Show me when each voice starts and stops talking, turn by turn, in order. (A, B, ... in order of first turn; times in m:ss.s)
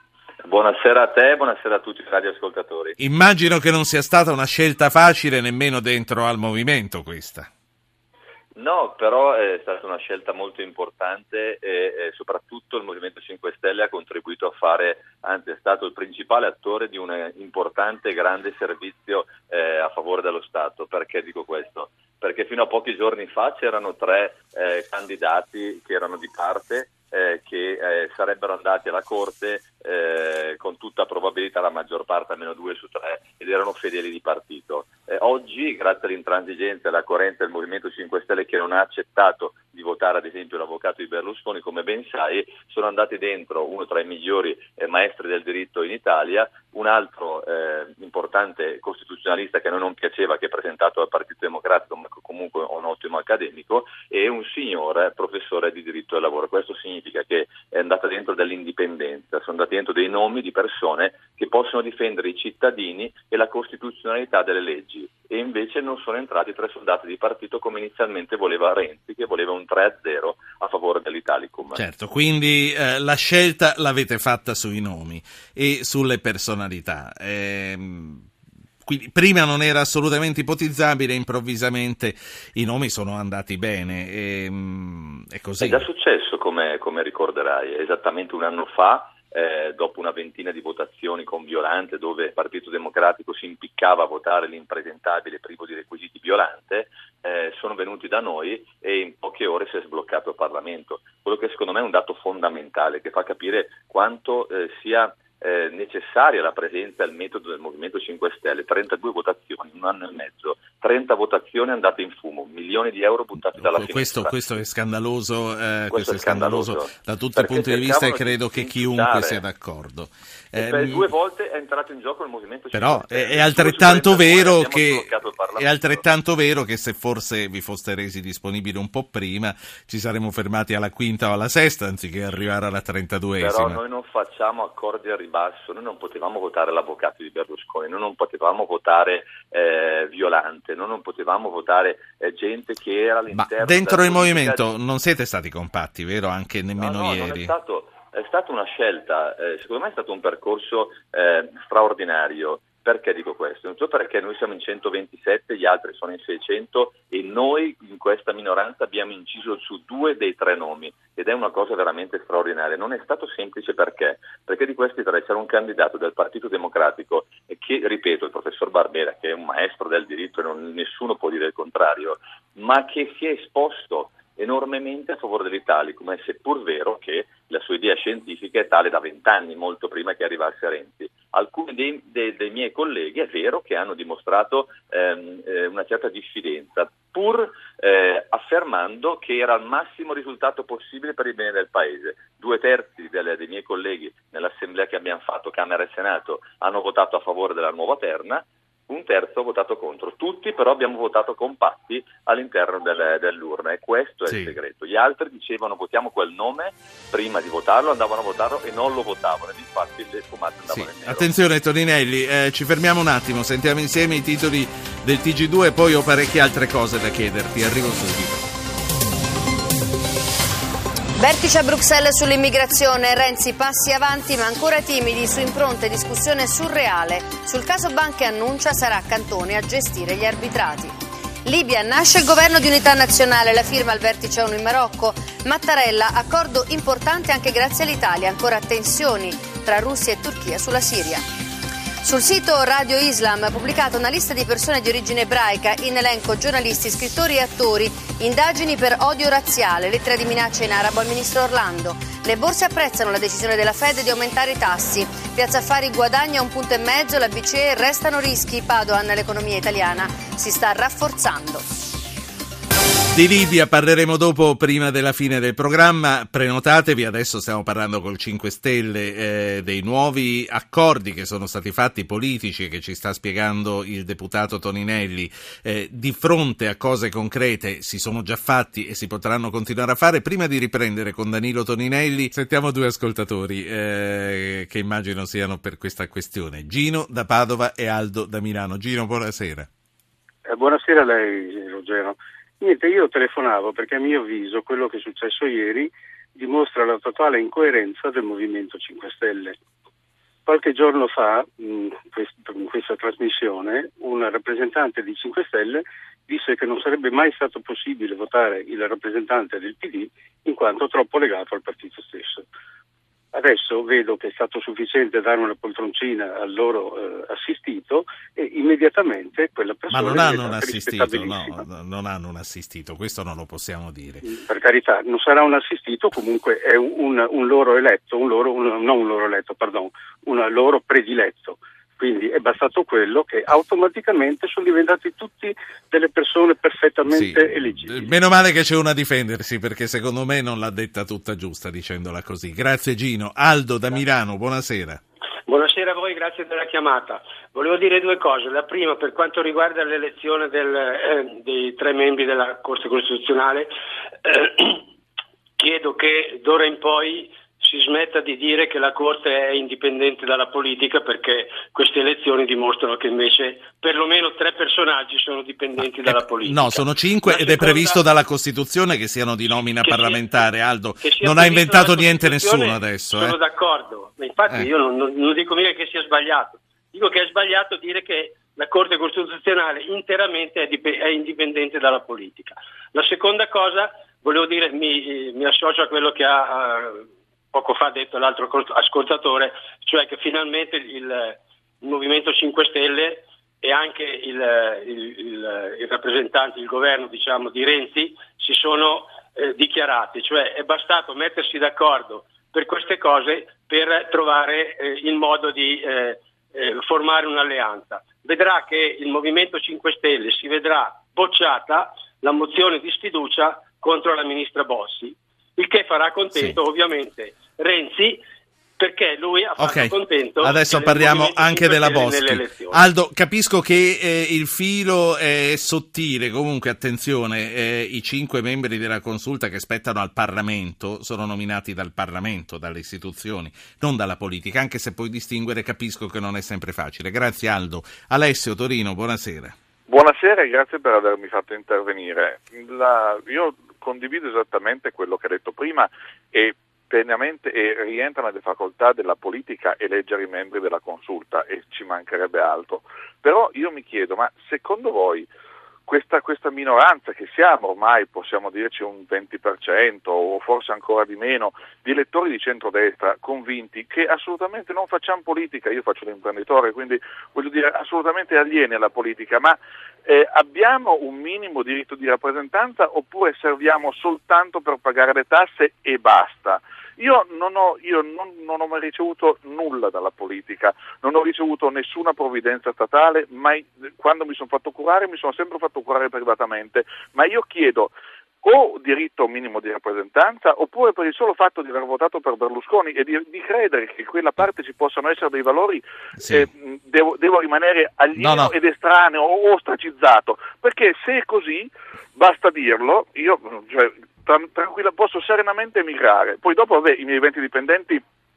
0:00.4-0:03.0 A
0:03.0-0:07.5 B
0:08.6-1:11.8 A
1:11.8-1:18.3 B
1:18.8-1:25.8 B
1:25.6-1:54.4 A
1:53.6-2:01.0 B
1:55.9-1:59.4 A
2:00.6-2:06.0 A
2:02.7-2:13.8 B
2:13.4-2:24.6 A
2:23.3-2:27.5 B
2:26.8-3:31.3 A
3:24.3-3:24.5 B
3:30.7-3:38.5 B
3:41.2-4:01.2 C
4:02.0-4:21.6 C
4:23.1-4:49.7 B
4:50.5-4:59.6 D
5:00.5-5:12.5 D
5:13.3-5:21.6 D
5:19.9-5:24.2 B
5:24.2-5:38.1 D
5:37.1-5:45.0 B
5:45.5-5:53.7 E
5:54.2-5:54.8 E
5:55.6-6:08.0 E
6:05.8-6:13.4 B
6:09.8-6:10.4 E
6:11.0-6:58.2 E
6:58.8-7:02.8 E
6:59.6-7:19.6 B
7:19.9-7:35.3 F
7:35.9-8:28.0 F
8:16.2-8:16.5 B
8:18.2-8:18.5 B